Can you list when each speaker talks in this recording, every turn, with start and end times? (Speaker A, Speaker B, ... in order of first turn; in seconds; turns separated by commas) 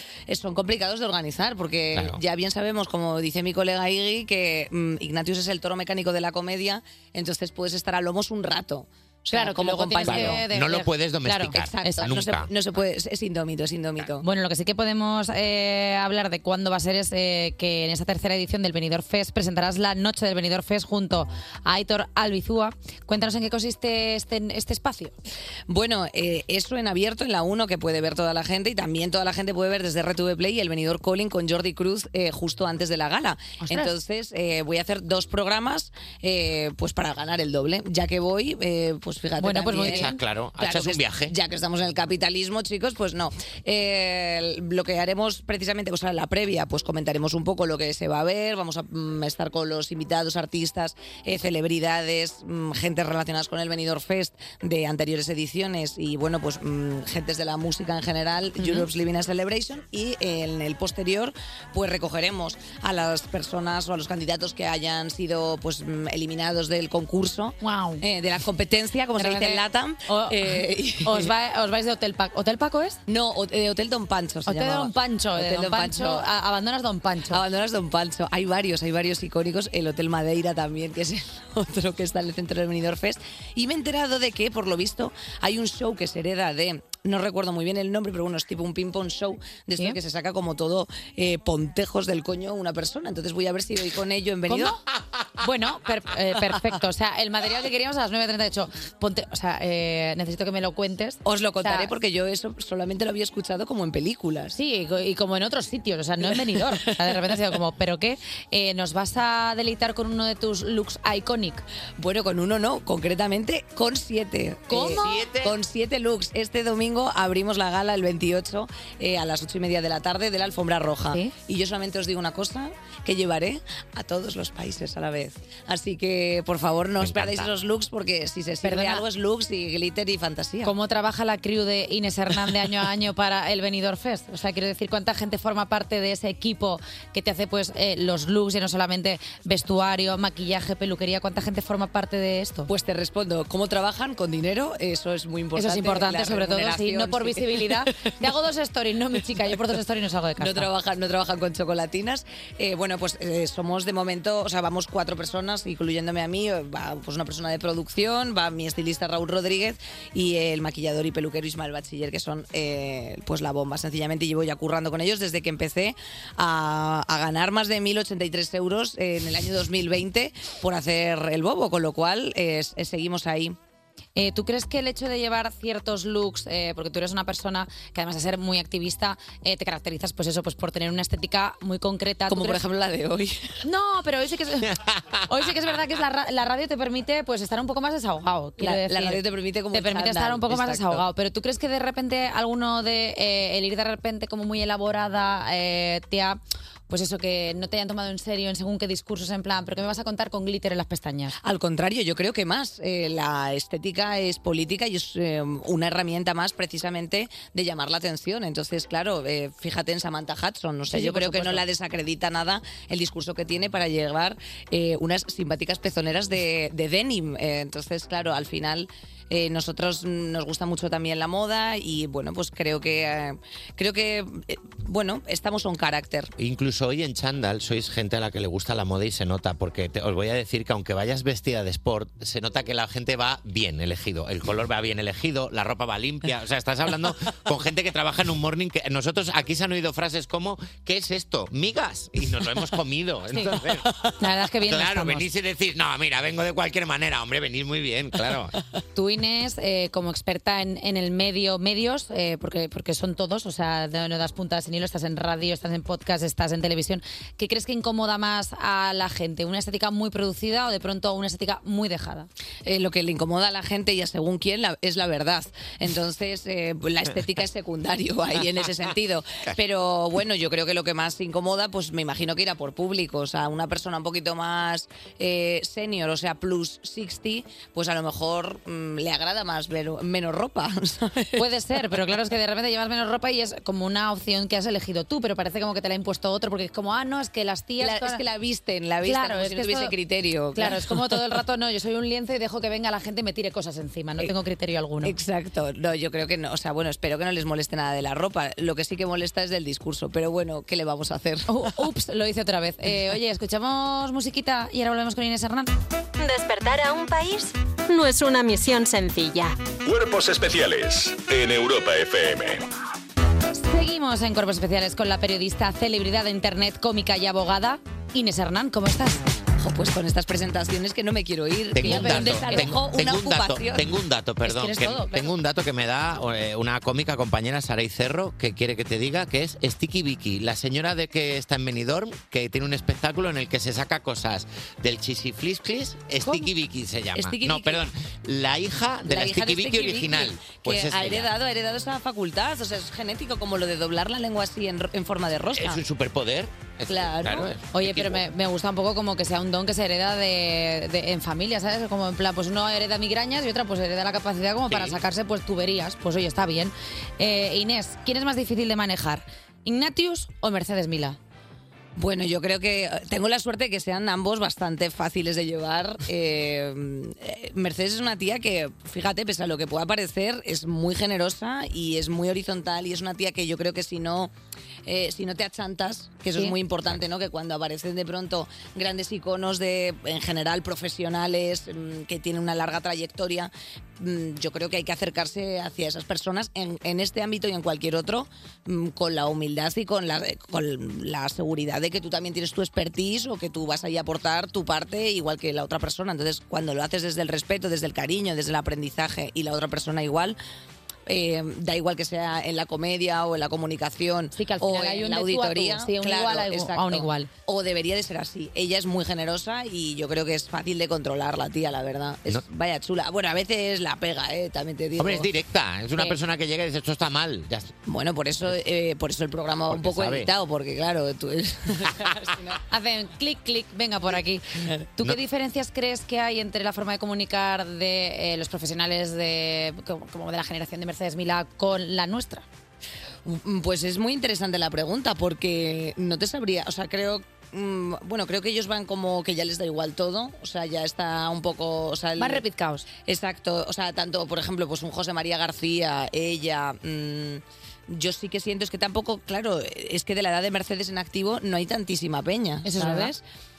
Speaker A: 0.3-10.4, Speaker B: 1.9-2.2, Speaker C: 9.3-12.1, Speaker B: 10.0-12.5, Speaker A: 11.6-14.2, Speaker C: 14.2-25.1, Speaker A: 25.7-71.3, Speaker C: 33.6-33.9, Speaker C: 39.4-40.2, Speaker B: 39.8-41.3, Speaker C: 58.6-58.9, Speaker C: 67.6-68.0, Speaker C: 69.2-73.0, Speaker A: 73.1-76.3, Speaker C: 74.5-77.4, Speaker A: 77.3-94.8, Speaker C: 94.5-94.8, Speaker C: 95.4-101.9, Speaker A: 101.2-104.5, Speaker C: 104.5-111.6, Speaker A: 106.3-107.2, Speaker A: 112.0-130.7, Speaker C: 114.7-115.2, Speaker B: 114.9-115.5, Speaker B: 127.0-127.5, Speaker C: 128.6-129.0, Speaker C: 130.6-142.7, Speaker A: 142.7-148.2, Speaker C: 145.5-150.7, Speaker A: 150.4-173.6, Speaker C: 174.2-182.6, Speaker A: 182.3-183.5, Speaker C: 183.6-189.2, Speaker A: 188.6-191.1, Speaker C: 189.7-201.4, Speaker A: 201.4-226.3, Speaker C: 210.9-211.6, Speaker B: 226.4-244.1, Speaker C: 244.2-245.3, Speaker B: 244.7-248.5, Speaker C: 248.9-262.3, Speaker A: 262.6-281.4, Speaker C: 281.4-288.2, Speaker A: 287.8-291.0, Speaker C: 289.0-289.9, Speaker C: 290.5-295.1, Speaker A: 295.0-301.5, Speaker C: 301.5-305.7, Speaker D: 306.2-309.6, Speaker E: 309.8-312.6, Speaker C: 313.6-319.2, Speaker A: 319.6-323.9, Speaker B: 321.7-341.3, Speaker C: 321.8-322.8, Speaker C: 324.4-325.3, Speaker C: 336.2-336.5, Speaker A: 337.1-337.9, Speaker A: 339.1-345.8, Speaker B: 345.5-348.2, Speaker A: 346.9-347.5, Speaker C: 347.7-361.2, Speaker B: 354.7-355.0, Speaker A: 362.0-374.3, Speaker A: 374.9-400.4, Speaker A: 401.1-415.3, Speaker C: 404.3-407.3, Speaker B: 415.0-417.7, Speaker A: 417.9-422.6, Speaker B: 419.7-420.3, Speaker C: 422.7-432.4, Speaker A: 433.2-442.4, Speaker C: 442.2-442.9, Speaker A: 443.0-453.2, Speaker C: 452.6-453.1